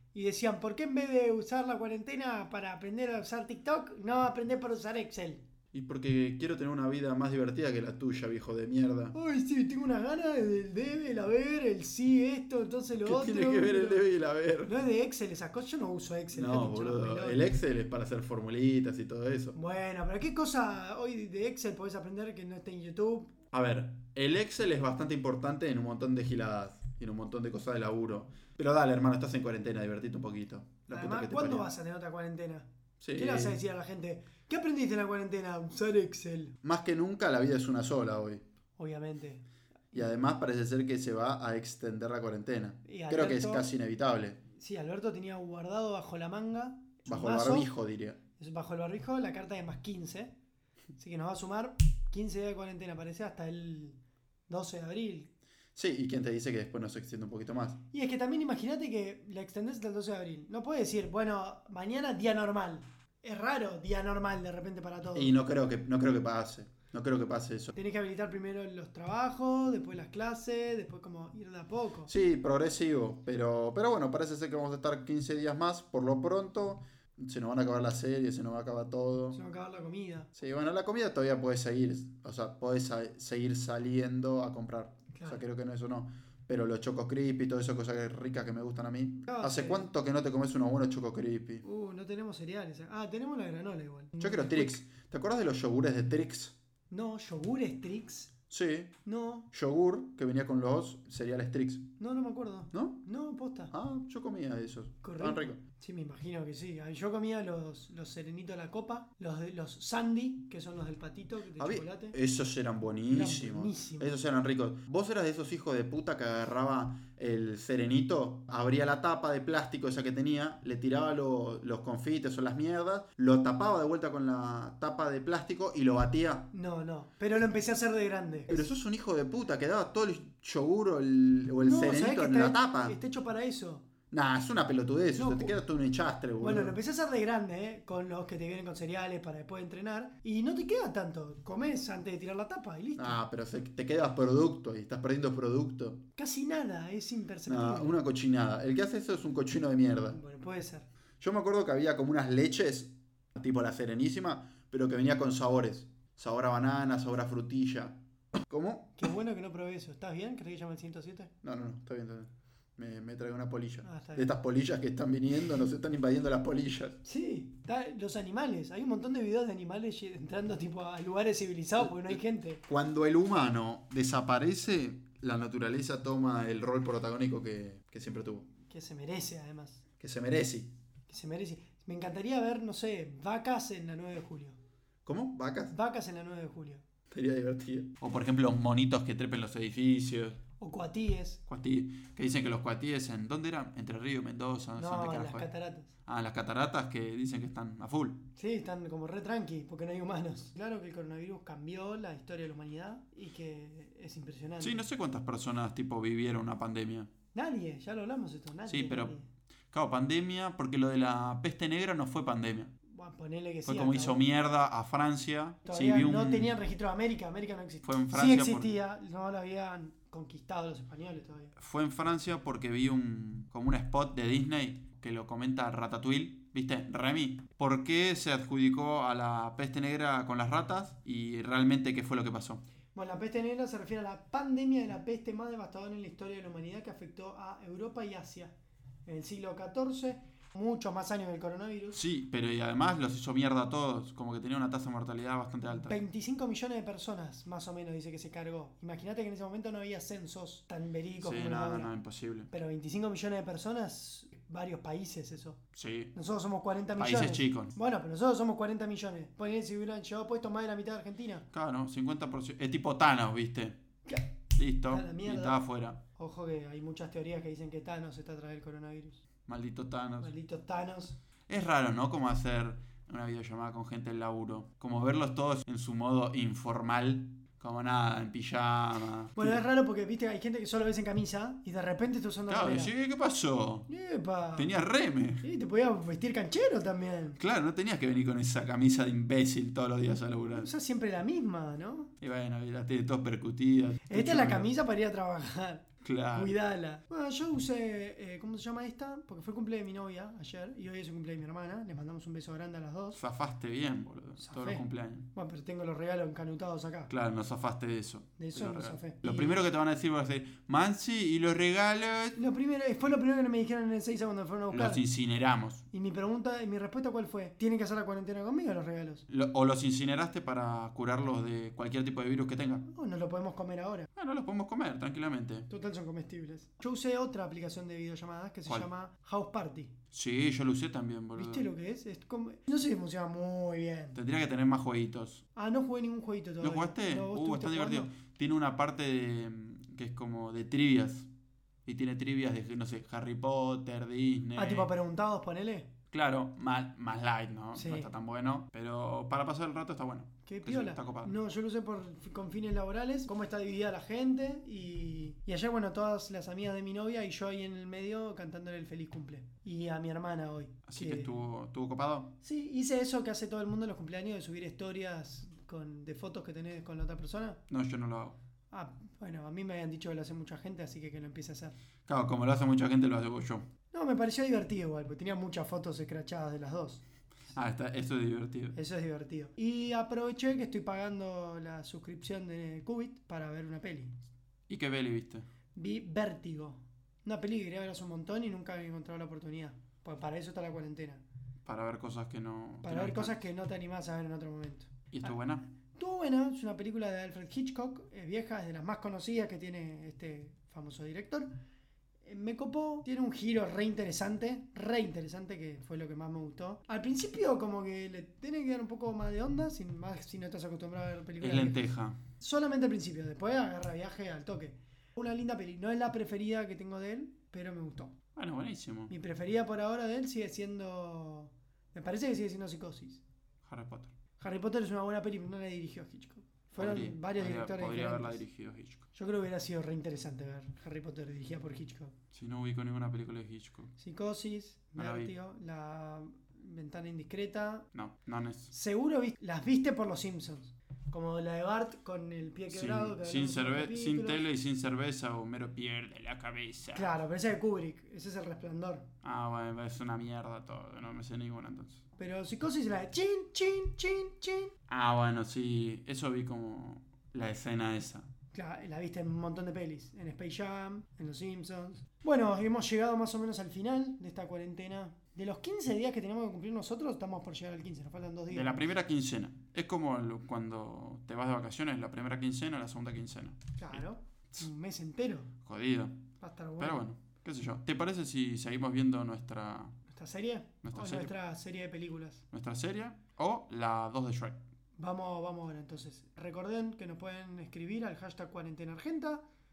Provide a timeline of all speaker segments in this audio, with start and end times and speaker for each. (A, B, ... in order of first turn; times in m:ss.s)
0:00.1-0:05.4 A
0:05.7-0:09.1 B
0:09.1-0:14.0 A
0:13.0-0:14.7 B
0:14.6-0:17.4 A
0:16.3-0:19.6 B
0:19.5-0:23.3 A
0:23.5-0:31.7 B
0:30.9-0:36.6 A
0:33.0-0:33.6 B
0:36.6-0:38.4 B
0:38.8-0:39.4 A
0:39.9-0:44.4 B
0:42.8-0:43.7 A
0:44.5-0:47.7 A
0:47.1-0:48.2 B
0:48.4-0:50.4 A
0:51.0-0:55.3 A
0:55.8-0:57.8 B
0:57.9-1:05.4 A
1:05.1-1:07.7 B
1:07.7-1:12.1 A
1:12.1-1:19.4 B
1:19.3-1:20.3 A
1:20.3-1:31.6 B
1:25.1-1:25.4 A
1:29.2-1:29.9 A
1:31.6-1:34.8 A
1:34.2-1:36.5 B
1:36.9-1:38.3 A
1:38.5-1:38.9 B
1:39.0-1:39.5 A
1:39.5-1:41.9 B
1:42.0-1:43.7 A
1:42.7-1:43.0 B
1:43.7-1:45.6 B
1:45.0-1:52.2 A
1:51.6-2:06.5 B
1:53.1-1:54.1 A
2:06.5-2:08.7 A
2:08.5-2:13.0 B
2:11.6-2:13.9 A
2:14.1-2:16.8 B
2:15.2-2:15.5 A
2:16.4-2:23.2 A
2:23.0-2:26.0 B
2:26.2-2:28.0 A
2:27.5-2:30.2 B
2:30.1-2:30.9 A
2:31.2-2:39.0 B
2:39.0-2:41.3 A
2:41.4-2:47.0 B
2:43.8-2:44.3 A
2:47.0-2:52.6 A
2:51.8-2:58.5 B
2:58.6-2:59.8 A
3:00.0-3:00.7 B
3:01.1-3:04.6 A
3:05.0-3:05.7 B
3:05.7-3:06.8 A
3:07.1-3:10.4 B
3:10.6-3:11.4 A
3:11.5-3:15.5 B
3:14.8-3:15.9 A
3:16.0-3:18.3 B
3:18.4-3:24.8 A
3:24.6-3:27.1 B
3:27.3-3:29.3 A
3:28.6-3:29.1 B
3:29.7-3:32.7 B
3:32.9-3:34.2 A
3:33.6-3:36.5 B
3:35.6-3:41.5 A
3:37.8-3:38.7 B
3:41.6-3:52.6 B
3:52.9-4:02.0 A
4:01.9-4:06.0 B
4:05.7-4:11.9 A
4:11.2-4:12.5 B
4:12.5-4:15.6 A
4:15.7-4:16.1 B
4:16.1-4:21.5 A
4:17.0-4:17.8 B
4:21.5-4:23.8 B
4:24.0-4:24.3 A
4:24.5-4:26.0 B
4:24.9-4:25.6 A
4:26.1-4:29.2 A
4:29.4-4:30.3 B
4:30.2-4:31.2 A
4:31.5-4:39.6 B
4:39.4-4:42.9 A
4:42.5-4:43.9 B
4:43.9-4:44.7 A
4:44.6-4:45.4 B
4:45.4-4:47.4 A
4:47.4-4:50.7 B
4:50.5-4:52.1 A
4:52.2-4:54.7 B
4:54.1-5:03.2 A
4:56.0-4:56.5 B
5:03.1-5:05.3 B
5:04.4-5:07.1 A
5:07.1-5:12.4 B
5:08.4-5:09.6 A
5:12.4-5:15.0 A
5:14.7-5:15.8 B
5:15.9-5:19.2 A
5:19.3-5:22.8 B
5:22.8-5:24.1 A
5:24.1-5:25.7 B
5:25.7-5:29.9 A
5:30.1-5:31.7 B
5:31.4-5:34.2 A
5:34.1-5:35.4 B
5:35.6-5:38.1 A
5:36.6-5:41.3 B
5:41.8-5:44.9 B
5:44.6-5:45.9 A
5:46.1-5:51.3 B
5:47.7-5:48.1 A
5:50.4-6:01.3 A
6:00.9-6:02.4 B
6:02.4-6:07.6 A
6:07.7-6:08.4 B
6:08.7-6:11.8 A
6:12.1-6:13.7 B
6:13.9-6:17.0 A
6:17.5-6:18.8 B
6:18.7-6:24.1 A
6:24.7-6:25.5 B
6:25.7-6:31.2 A
6:31.6-6:33.4 B
6:32.8-6:35.3 A
6:35.1-6:35.6 B
6:35.9-6:41.5 A
6:42.2-6:51.8 A
6:51.4-6:52.2 B
6:52.4-6:58.2 A
6:58.4-6:59.1 B
6:59.1-7:03.2 A
7:03.6-7:04.1 B
7:04.4-7:08.4 A
7:06.8-7:09.0 B
7:09.1-7:12.1 A
7:12.3-7:13.9 B
7:14.0-7:17.9 A
7:15.0-7:15.3 B
7:17.9-7:18.7 B
7:18.7-7:24.4 A
7:22.7-7:27.1 B
7:26.9-7:29.1 A
7:29.2-7:32.0 B
7:32.2-7:34.7 A
7:34.9-7:38.3 B
7:38.5-7:48.8 A
7:48.5-7:54.0 B
7:53.8-7:55.5 A
7:55.6-8:00.0 B
7:56.4-7:57.0 A
8:00.1-8:02.4 A
8:00.8-8:01.3 B
8:02.5-8:04.6 B
8:05.0-8:09.4 A